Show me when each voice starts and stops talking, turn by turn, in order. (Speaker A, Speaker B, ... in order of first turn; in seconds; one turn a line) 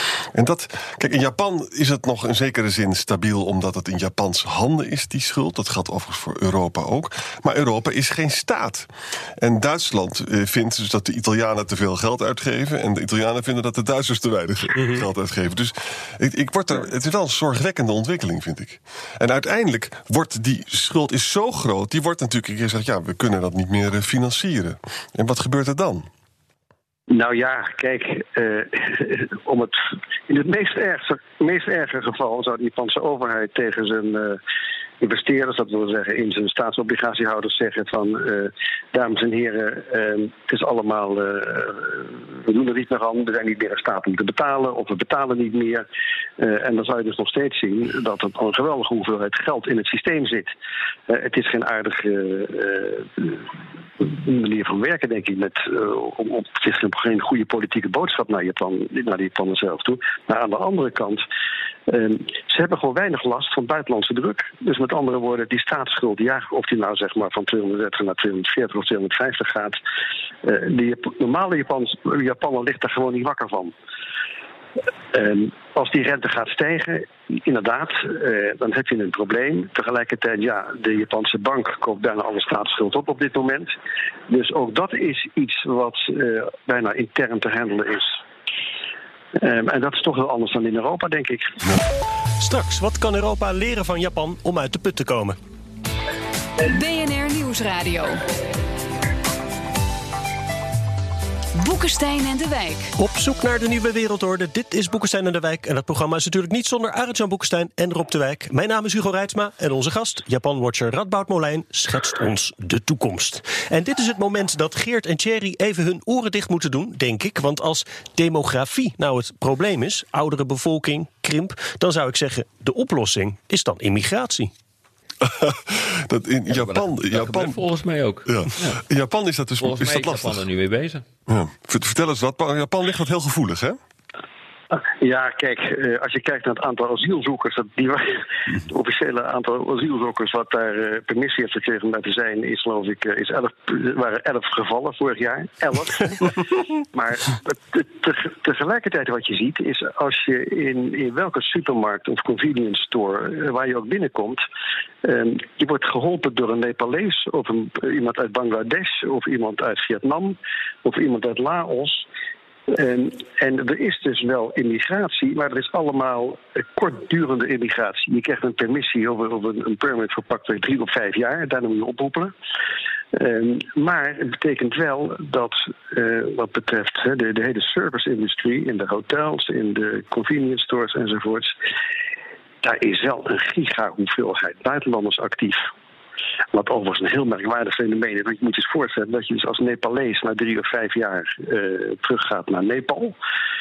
Speaker A: 0.3-8.9
Speaker A: 9.4-26.1
Speaker B: 14.8-15.0
Speaker C: 27.1-34.4
Speaker C: 35.0-45.8
Speaker C: 46.4-50.5
Speaker C: 51.1-53.4
Speaker C: 54.0-61.2
Speaker C: 61.9-69.8
Speaker C: 70.4-73.7
Speaker C: 75.1-83.7
Speaker C: 84.3-88.2
Speaker C: 89.3-91.6
Speaker B: 92.4-95.4
Speaker D: 96.7-98.2
Speaker D: 101.5-102.9
Speaker B: 103.0-124.5
Speaker A: 125.2-127.6
Speaker E: 126.5-128.8
Speaker A: 128.3-130.4
Speaker E: 129.6-131.0
Speaker A: 131.3-133.8
Speaker C: 134.7-154.4
Speaker C: 155.0-162.0
Speaker C: 162.7-172.3
Speaker C: 173.1-181.5
Speaker C: 182.6-185.7
Speaker C: 186.5-193.1